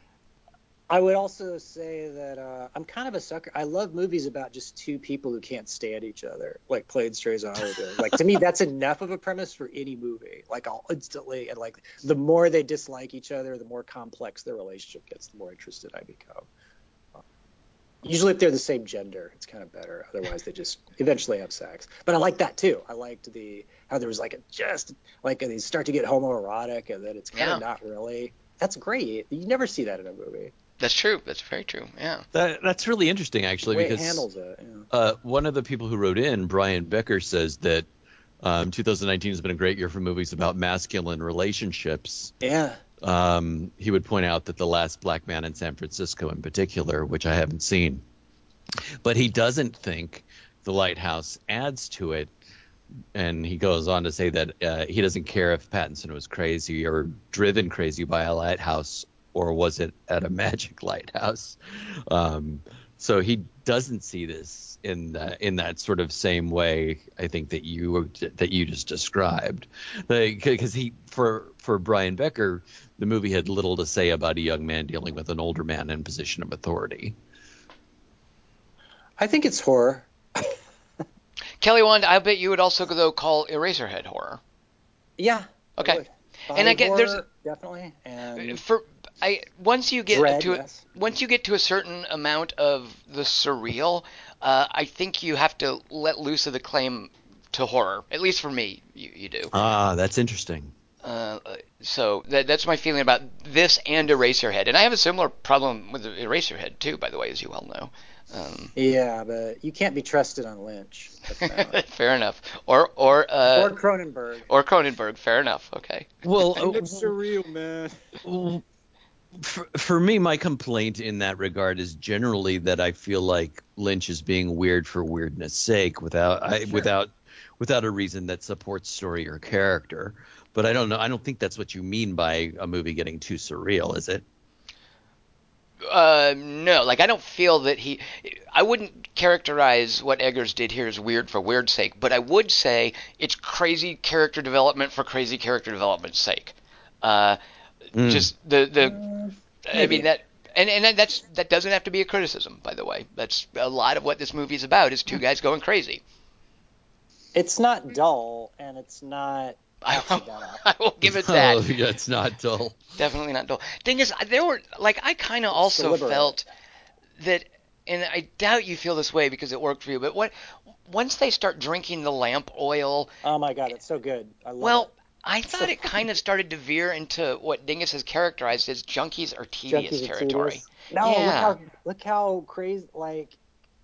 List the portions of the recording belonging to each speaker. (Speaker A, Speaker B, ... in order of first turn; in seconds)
Speaker A: 0.9-16.5, 18.0-30.5, 33.7-34.9, 42.4-42.8, 79.2-80.6, 85.2-88.6, 90.1-90.8, 108.8-111.8, 113.5-114.5, 116.5-118.0, 148.8-150.1, 157.3-160.6, 165.5-166.4, 173.2-174.9, 175.5-176.0, 179.7-183.4
Speaker B: 27.4-27.6, 30.8-32.2, 81.6-84.4, 86.5-87.2, 88.4-99.5, 101.0-108.7, 111.5-113.7, 114.5-116.1, 135.9-147.4, 148.0-149.0, 149.7-156.0, 159.8-161.7, 163.0-166.4, 167.2-170.3, 170.9-173.1, 174.6-181.6
Speaker C: 32.3-34.3, 34.9-37.9, 38.4-42.3, 43.0-48.0, 49.0-52.3, 53.1-61.6, 62.1-77.2, 99.5-100.7, 116.2-117.1, 118.2-118.6, 119.3-134.2, 147.9-148.3, 161.0-162.8